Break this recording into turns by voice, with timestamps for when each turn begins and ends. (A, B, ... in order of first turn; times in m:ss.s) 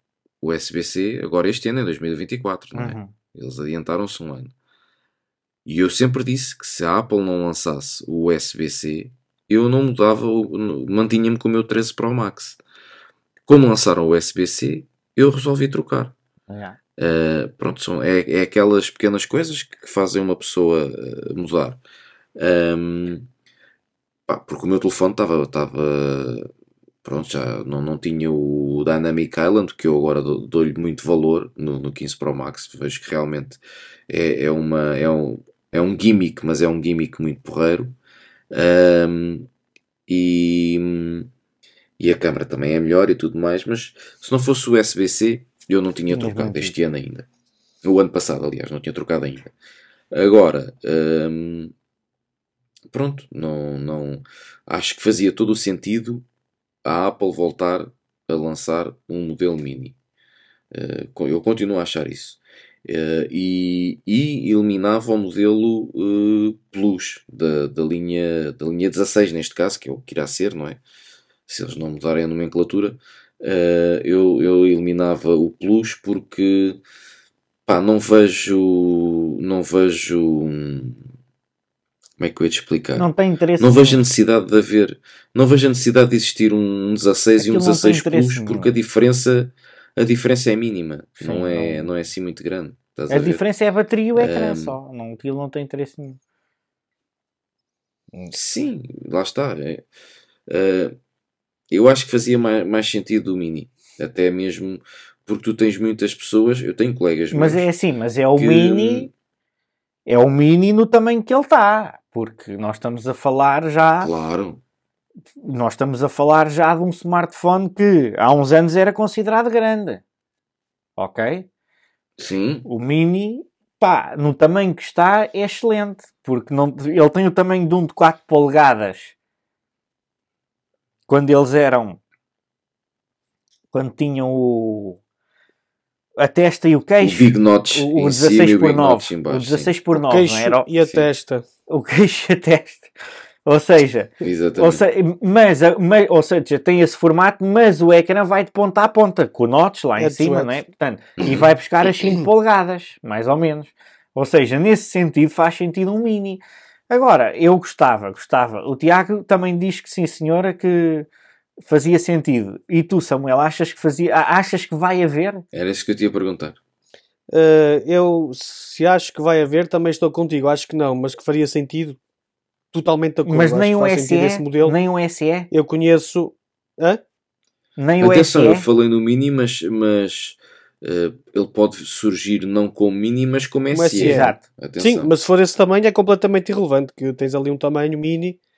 0:00.4-0:04.5 A
0:02.7-0:03.1 B
0:05.6-0:12.6 A
0:13.5-0:16.1 A
0:16.5-0:16.8 B
0:17.0-0:21.8 A
0:22.4-0:23.3 A
0:24.3-0:26.5 A
0:27.0-0:38.0 A
0:38.5-0:39.5 A
0:40.1-0:41.3 A
0:42.0-0:47.2 A
0:46.1-0:46.7 B
0:47.8-0:49.5 A
0:50.1-0:51.7 A
0:52.9-0:56.2 A
0:56.8-0:59.9 A
1:00.7-1:10.8 A
1:11.5-1:16.8 A
1:17.6-1:21.0 A
1:22.2-1:23.1 A
1:23.0-1:24.0 B
1:23.6-1:33.4 A
1:27.4-1:28.7 B
1:31.2-1:31.9 B
1:33.1-1:36.2 B
1:34.1-1:34.8 A
1:38.3-1:39.8 A
1:40.5-1:40.9 A
1:41.7-1:47.6 A
1:47.3-1:49.1 B
1:48.4-1:49.1 A
1:50.0-1:54.1 B
1:54.0-1:54.6 A
1:55.4-2:00.0 B
2:01.0-2:01.5 B
2:02.2-2:02.6 A
2:02.6-2:09.1 B
2:11.1-2:12.0 B
2:13.7-2:15.0 B
2:16.2-2:20.7 B
2:17.0-2:19.8 A
2:20.0-2:21.4 C
2:20.8-2:21.1 A
2:21.7-2:22.9 B
2:23.4-2:41.1 B
2:24.2-2:24.8 A
2:30.0-2:30.6 C
2:31.2-2:32.2 A
2:41.6-2:45.4 B
2:45.5-2:46.6 A
2:47.3-2:52.0 C
2:52.7-2:54.8 C
2:53.2-2:55.5 B
2:55.5-2:57.0 C
2:57.8-2:58.6 B
2:58.0-3:05.1 A
3:03.7-3:08.4 C
3:04.0-3:04.4 B